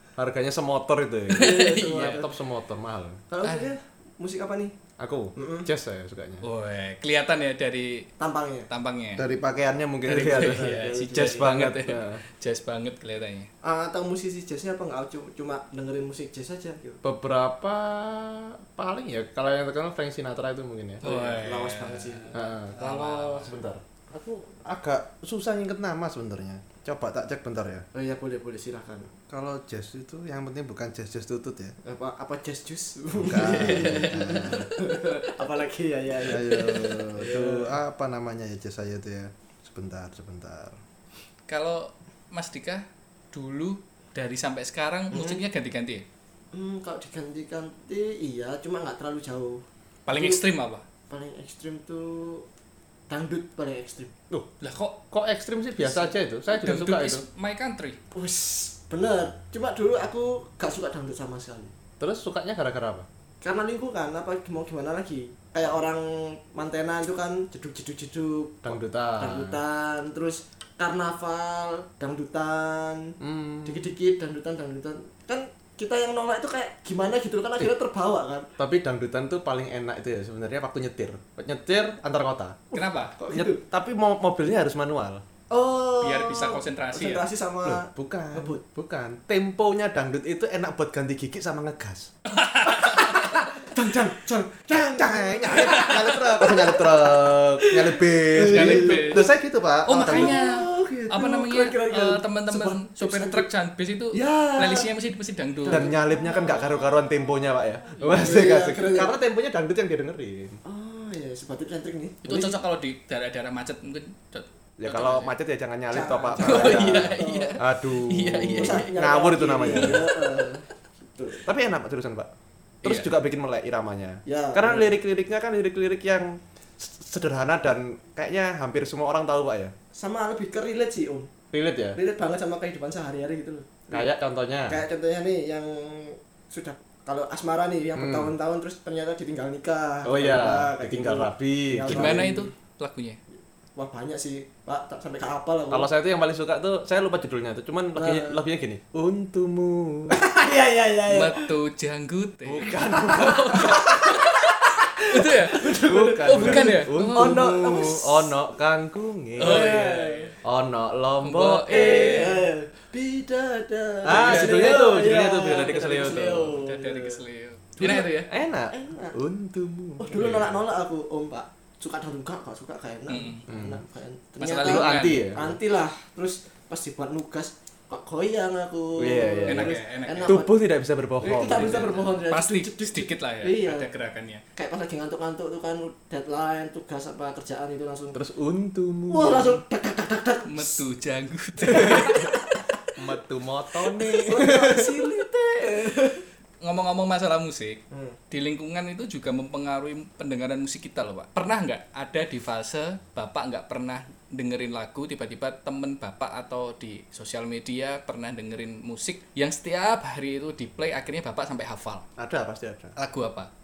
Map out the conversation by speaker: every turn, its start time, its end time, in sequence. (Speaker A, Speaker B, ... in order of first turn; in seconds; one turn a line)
Speaker A: 0.2-3.2
Speaker B: 1.3-2.2
Speaker C: 1.3-2.3
Speaker C: 3.3-4.7
Speaker B: 3.4-3.7
Speaker A: 5.0-6.5
Speaker C: 5.3-5.7
Speaker B: 6.4-8.1
Speaker C: 8.2-8.7
Speaker B: 8.7-9.3
Speaker A: 9.2-12.2
Speaker B: 10.1-13.5
Speaker C: 10.6-11.5
Speaker C: 13.6-17.0
Speaker A: 17.0-21.0
Speaker C: 21.0-22.4
Speaker B: 21.0-23.6
Speaker A: 22.3-27.9
Speaker C: 27.9-29.1
Speaker A: 29.3-31.7
Speaker C: 31.8-37.7
Speaker A: 33.1-34.7
Speaker B: 33.4-34.6
Speaker A: 36.2-40.8
Speaker B: 41.5-46.0
Speaker C: 45.1-45.4
Speaker C: 46.5-49.6
Speaker B: 50.1-50.8
Speaker C: 50.1-50.4
Speaker C: 51.1-52.4
Speaker C: 53.1-54.1
Speaker B: 54.6-55.0
Speaker A: 55.1-57.2
Speaker B: 55.9-58.0
Speaker C: 58.1-61.7
Speaker A: 62.0-63.1
Speaker C: 63.4-78.5
Speaker A: 68.6-69.6
Speaker A: 73.2-73.9
Speaker A: 78.6-82.7
Speaker B: 82.7-83.2
Speaker C: 82.7-83.6
Speaker A: 83.3-85.2
Speaker C: 85.5-88.6
Speaker B: 86.0-87.2
Speaker A: 87.6-92.1
Speaker B: 92.3-93.4
Speaker C: 92.7-99.2
Speaker A: 94.7-100.4
Speaker B: 98.5-99.3
Speaker B: 99.8-105.9
Speaker C: 99.9-103.5
Speaker C: 104.1-104.9
Speaker C: 105.6-106.8
Speaker A: 105.7-110.6
Speaker C: 108.0-109.1
Speaker C: 110.6-112.6
Speaker B: 112.2-115.3
Speaker A: 114.8-120.1
Speaker C: 115.9-117.6
Speaker B: 116.3-118.9
Speaker C: 118.5-121.5
Speaker B: 119.7-120.1
Speaker A: 121.4-122.3
Speaker B: 122.8-123.1
Speaker A: 122.8-129.7
Speaker C: 124.2-124.9
Speaker C: 129.9-131.3
Speaker A: 131.5-132.0
Speaker C: 131.9-134.1
Speaker A: 133.9-134.8
Speaker C: 134.7-142.5
Speaker A: 137.9-138.3
Speaker A: 140.0-142.3
Speaker B: 141.9-143.2
Speaker C: 143.8-145.9
Speaker A: 145.7-150.2
Speaker C: 147.9-148.4
Speaker C: 150.1-151.5
Speaker B: 151.1-154.3
Speaker A: 152.4-153.8
Speaker C: 153.0-158.3
Speaker B: 155.0-157.4
Speaker A: 155.7-159.8
Speaker B: 159.4-160.3
Speaker C: 159.4-160.3
Speaker A: 160.4-162.1
Speaker B: 161.2-162.5
Speaker C: 161.7-167.2
Speaker A: 164.0-166.5
Speaker B: 164.1-164.8
Speaker B: 166.0-168.3
Speaker C: 167.8-168.1
Speaker A: 168.3-170.6
Speaker C: 168.7-169.2
Speaker C: 170.0-180.5
Speaker B: 173.1-173.4
Speaker A: 173.5-173.8
Speaker B: 174.4-175.3
Speaker A: 174.6-175.6
Speaker A: 179.0-182.0
Speaker B: 179.5-180.4
Speaker C: 181.2-183.9
Speaker B: 181.5-184.4
Speaker C: 184.5-188.2
Speaker A: 188.1-189.6
Speaker C: 189.1-190.8
Speaker B: 190.5-192.8
Speaker C: 191.7-192.4
Speaker A: 192.9-195.0
Speaker C: 194.1-196.2
Speaker B: 196.6-212.0
Speaker C: 197.9-198.2
Speaker A: 212.2-212.9
Speaker B: 213.0-213.5